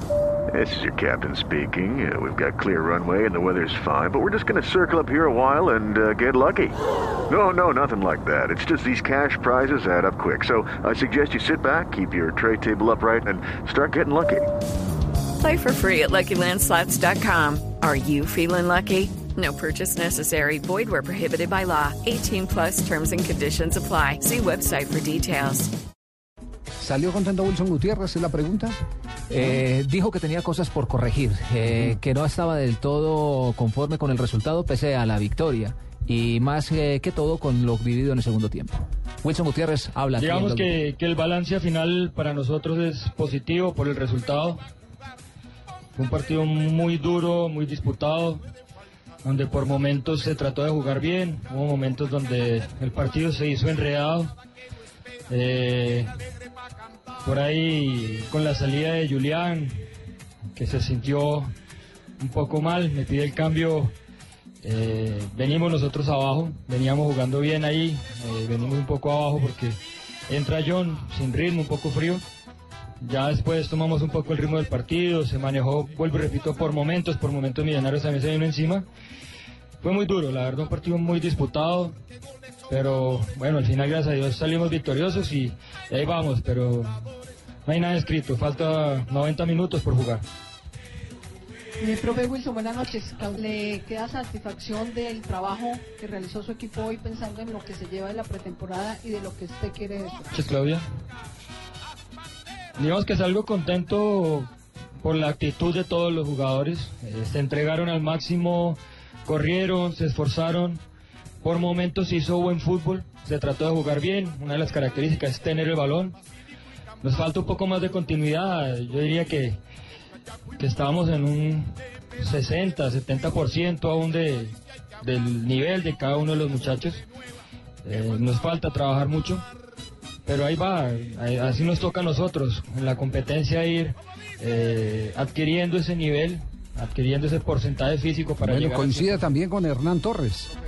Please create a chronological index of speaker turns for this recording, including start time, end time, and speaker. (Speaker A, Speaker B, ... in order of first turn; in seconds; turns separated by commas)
Speaker A: 0.5-6.8, Speaker A: 7.3-14.5, Speaker B: 15.4-25.7, Speaker C: 26.8-28.8, Speaker D: 29.3-40.7, Speaker E: 40.2-44.6, Speaker E: 46.0-48.4, Speaker E: 49.2-54.4, Speaker E: 55.3-56.1, Speaker E: 57.2-59.9, Speaker E: 60.5-61.5, Speaker E: 62.2-64.0, Speaker E: 64.6-72.2, Speaker E: 73.0-78.9, Speaker E: 79.8-82.0, Speaker E: 82.7-87.1, Speaker E: 87.7-90.2, Speaker F: 91.8-100.3, Speaker E: 100.3-100.8, Speaker E: 102.8-104.5, Speaker E: 105.0-110.8, Speaker E: 111.4-116.2, Speaker E: 117.0-119.6, Speaker E: 120.6-127.1, Speaker E: 127.8-129.4, Speaker E: 130.3-139.3, Speaker C: 138.4-140.5